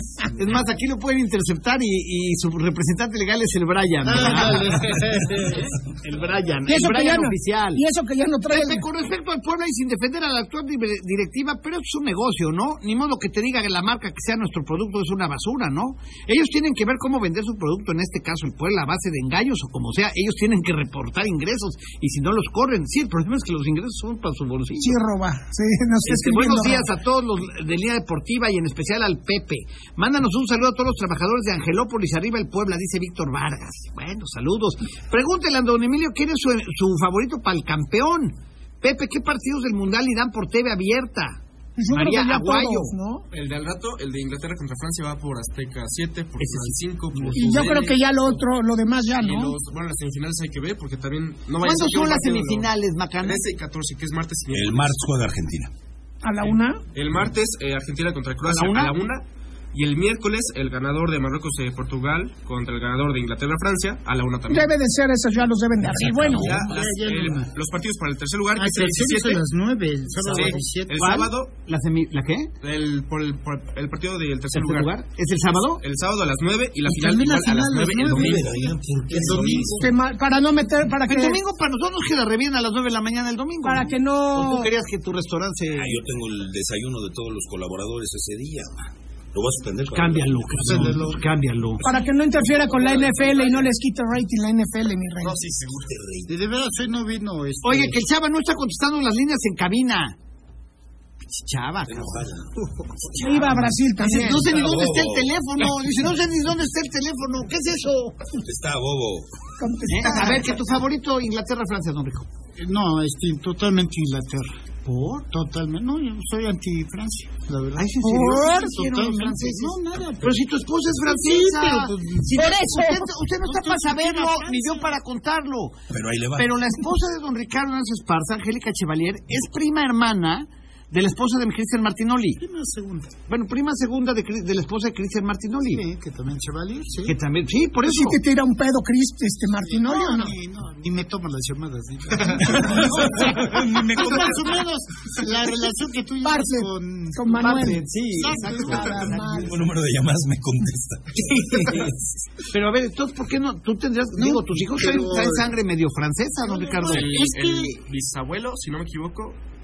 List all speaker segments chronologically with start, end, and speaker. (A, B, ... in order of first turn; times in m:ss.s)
0:00.3-0:07.8 A
0:04.0-0:05.8 B
0:06.7-0:08.8 C
0:08.5-0:25.0 A
0:24.8-0:26.9 C
0:26.0-0:42.9 A
0:41.8-0:43.2 C
0:43.3-0:48.4 D
0:46.4-0:47.4 A
0:47.3-0:49.6 C
0:49.2-0:55.0 D
0:51.6-0:53.4 A
0:54.5-0:55.7 E
0:56.2-0:56.8 C
0:56.9-1:04.8 D
0:58.4-0:59.0 A
1:04.5-1:06.6 C
1:06.2-1:07.5 B
1:06.3-1:09.4 D
1:08.5-1:11.1 B
1:10.2-1:11.5 D
1:10.3-1:12.5 A
1:12.6-1:15.0 D
1:14.5-1:15.8 A
1:15.8-1:19.7 D
1:16.8-1:19.9 B
1:18.0-1:19.8 E
1:19.8-1:21.4 C
1:21.0-1:26.0 A
1:23.6-1:24.7 C
1:25.7-1:31.0 E
1:29.9-1:31.8 A
1:30.6-1:31.2 B
1:31.8-1:35.4 C
1:32.5-1:33.7 D
1:35.2-1:35.6 D
1:35.2-1:36.3 E
1:36.3-1:38.0 B
1:37.6-1:40.2 A
1:41.3-1:42.3 A
1:41.9-1:45.3 E
1:43.2-1:44.6 C
1:44.0-1:48.2 A
1:48.4-1:49.3 E
1:49.6-1:50.6 C
1:49.9-1:52.3 A
1:52.6-1:54.5 B
1:54.8-1:55.2 A
1:55.3-2:05.0 B
1:57.8-2:05.8 A
1:58.0-1:58.7 C
2:02.4-2:03.0 C
2:05.9-2:06.7 E
2:06.4-2:12.4 A
2:12.4-2:13.2 B
2:13.3-2:15.8 A
2:15.6-2:17.2 B
2:17.0-2:18.2 A
2:17.8-2:20.3 C
2:19.6-2:29.5 B
2:22.5-2:24.5 E
2:26.2-2:27.8 C
2:27.3-2:29.5 A
2:28.7-2:29.5 C
2:29.4-2:31.7 E
2:31.4-2:31.8 A
2:32.5-2:37.3 A
2:34.1-2:35.5 B
2:36.4-2:37.8 B
2:36.8-2:39.4 D